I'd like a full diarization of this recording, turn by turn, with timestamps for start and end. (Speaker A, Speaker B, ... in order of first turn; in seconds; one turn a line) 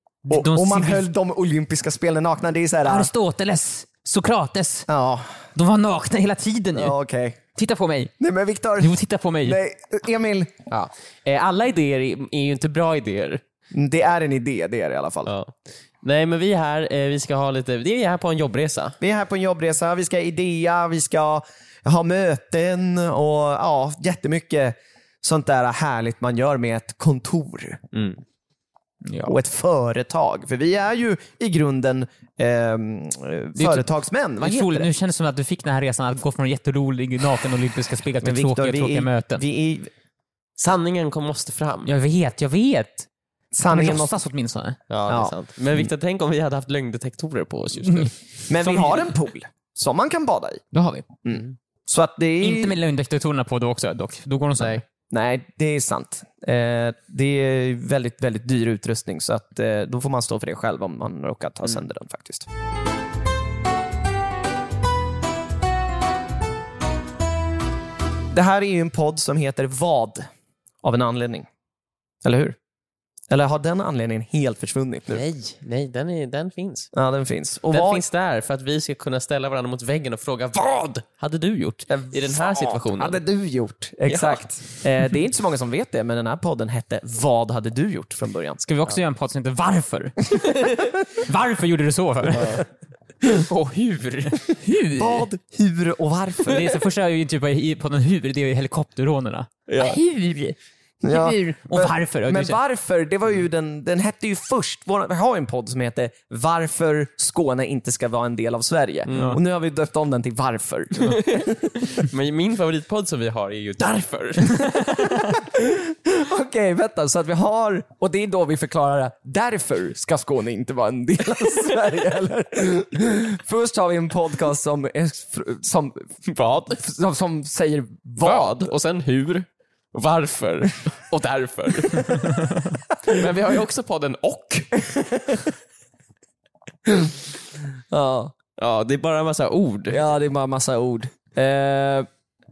Speaker A: 0.3-3.1
Speaker B: 0.3-1.1
Speaker B: 2.9-4.9
Speaker A: 4.9-5.4
Speaker B: 5.5-6.9
Speaker A: 6.7-7.4
Speaker B: 7.5-8.1
Speaker A: 8.2-10.5
Speaker B: 8.8-9.6
Speaker C: 10.7-13.4
Speaker A: 13.7-15.3
Speaker C: 15.2-19.0
Speaker A: 19.0-27.8
Speaker C: 27.9-28.2
Speaker B: 29.0-29.4
Speaker A: 29.2-34.9
Speaker B: 33.5-33.9
Speaker B: 34.4-39.4
Speaker A: 38.2-39.9
Speaker C: 40.6-41.9
Speaker B: 41.8-43.1
Speaker A: 43.5-44.1
Speaker B: 43.7-44.8
Speaker C: 44.9-48.1
Speaker A: 45.1-45.3
Speaker B: 47.9-49.1
Speaker A: 48.5-50.6
Speaker B: 50.7-51.0
Speaker A: 51.2-52.8
Speaker B: 52.4-54.8
Speaker A: 55.1-62.5
Speaker A: 68.3-70.3
Speaker A: 70.8-71.5
Speaker A: 72.2-72.5
Speaker A: 73.3-75.2
Speaker C: 75.1-76.9
Speaker A: 76.9-78.0
Speaker C: 77.7-83.2
Speaker A: 81.9-88.6
Speaker C: 84.0-84.4
Speaker B: 88.6-92.6
Speaker C: 92.3-92.6
Speaker C: 93.5-94.4
Speaker B: 94.6-95.2
Speaker A: 95.0-96.8
Speaker B: 96.5-102.6
Speaker C: 99.7-100.0
Speaker A: 101.0-112.0
Speaker C: 109.0-109.4
Speaker B: 109.1-109.4
Speaker C: 111.0-115.1
Speaker A: 115.3-128.6
Speaker C: 126.3-126.8
Speaker C: 128.2-134.8
Speaker A: 134.8-135.5
Speaker A: 136.8-137.1
Speaker A: 137.9-138.3
Speaker C: 138.6-140.0
Speaker A: 139.9-142.1